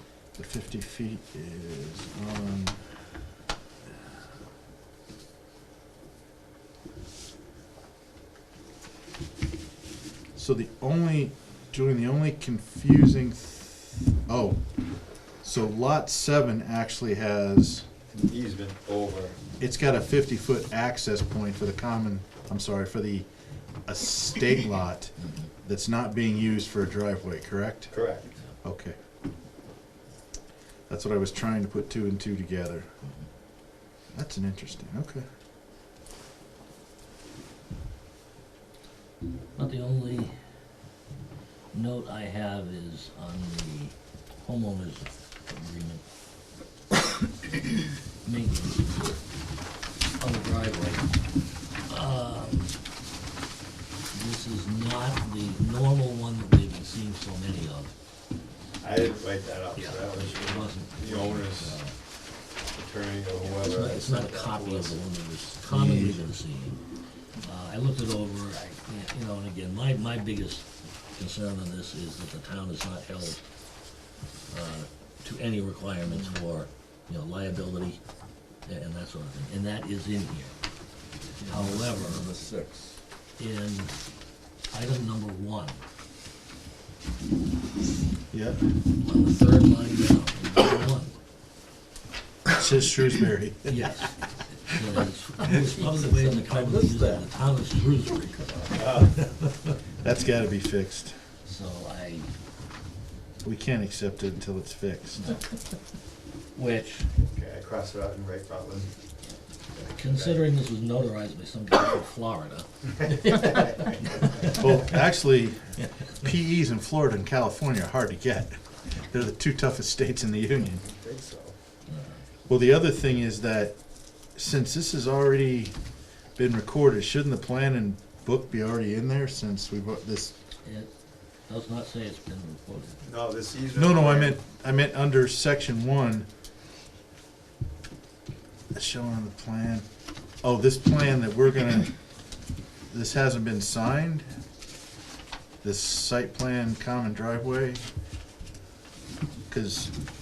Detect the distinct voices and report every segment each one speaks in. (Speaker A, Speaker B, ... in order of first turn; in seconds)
Speaker A: 0.3-2.9, 10.3-14.6, 15.4-17.9, 19.6-23.3, 23.9-25.1, 25.6-27.9, 28.6-29.0, 30.9-32.9, 34.1-35.2, 65.7-66.2, 88.3-88.7, 92.5-94.0, 100.0-101.2, 103.4-105.4, 114.4-120.8, 122.5-123.8, 124.3-125.7, 126.3-130.3, 133.7-136.3, 138.7-139.8, 140.4-141.9, 142.9-144.2, 145.6-147.8, 149.5-149.9
Speaker B: 18.1-19.4, 27.9-28.3, 58.8-61.8, 62.7-65.0, 98.7-99.2, 107.1-108.9, 109.7-110.5, 113.0-114.6, 120.8-121.5, 133.0-134.4
Speaker C: 39.5-40.3, 41.7-46.0, 48.2-49.2, 50.2-51.1, 51.9-52.7, 54.1-57.9, 59.7-61.9, 63.4-66.8, 67.4-73.4, 74.5-78.0, 78.7-80.5, 81.4-82.3, 83.4-83.9, 84.7-85.8, 89.0-91.1, 93.7-99.7, 101.4-102.3, 106.5-107.1, 109.9-114.9, 121.9-122.2, 130.6-130.9, 131.5-133.0
Speaker D: 76.0-76.3, 81.4-83.0, 95.4-97.2